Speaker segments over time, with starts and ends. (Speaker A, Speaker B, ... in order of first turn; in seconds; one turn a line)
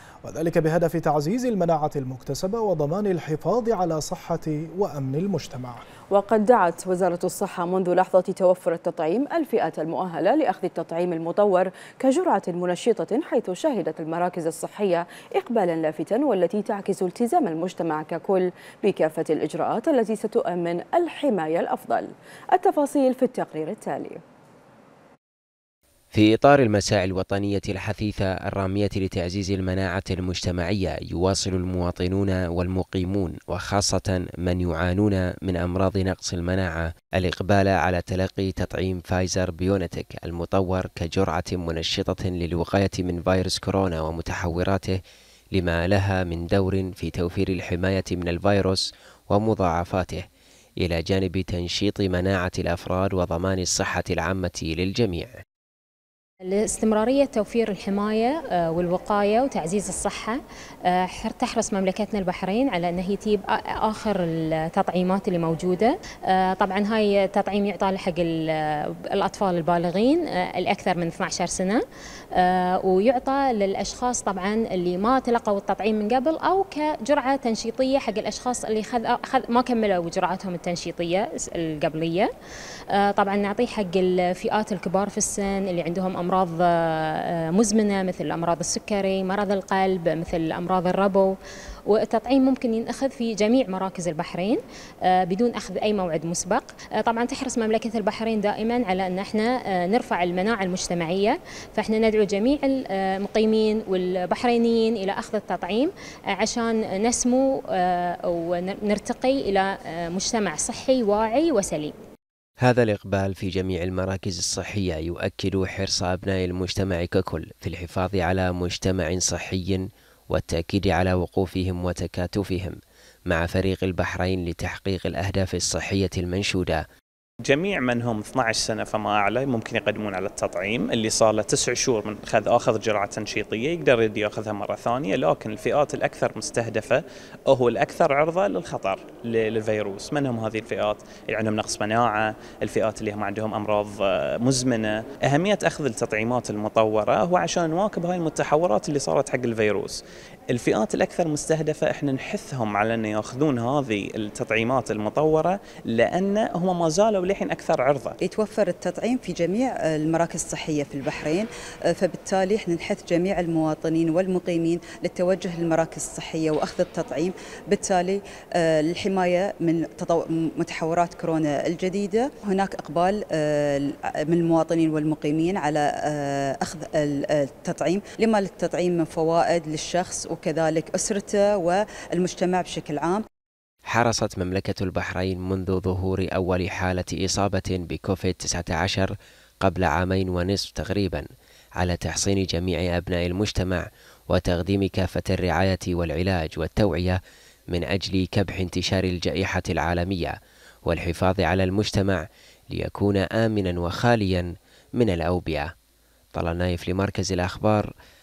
Speaker A: 0.2-5.9
Speaker B: 6.1-24.2
Speaker C: 26.1-45.0
Speaker C: 45.5-50.3
Speaker C: 50.8-55.4
Speaker D: 56.5-71.8
Speaker D: 72.3-82.3
Speaker D: 82.9-91.3
Speaker D: 91.9-111.9
Speaker C: 112.6-126.8
Speaker E: 127.5-150.0
Speaker E: 150.5-158.2
Speaker F: 158.2-183.2
Speaker C: 183.9-191.2
Speaker C: 191.8-197.2
Speaker C: 197.7-205.7
Speaker C: 206.3-207.9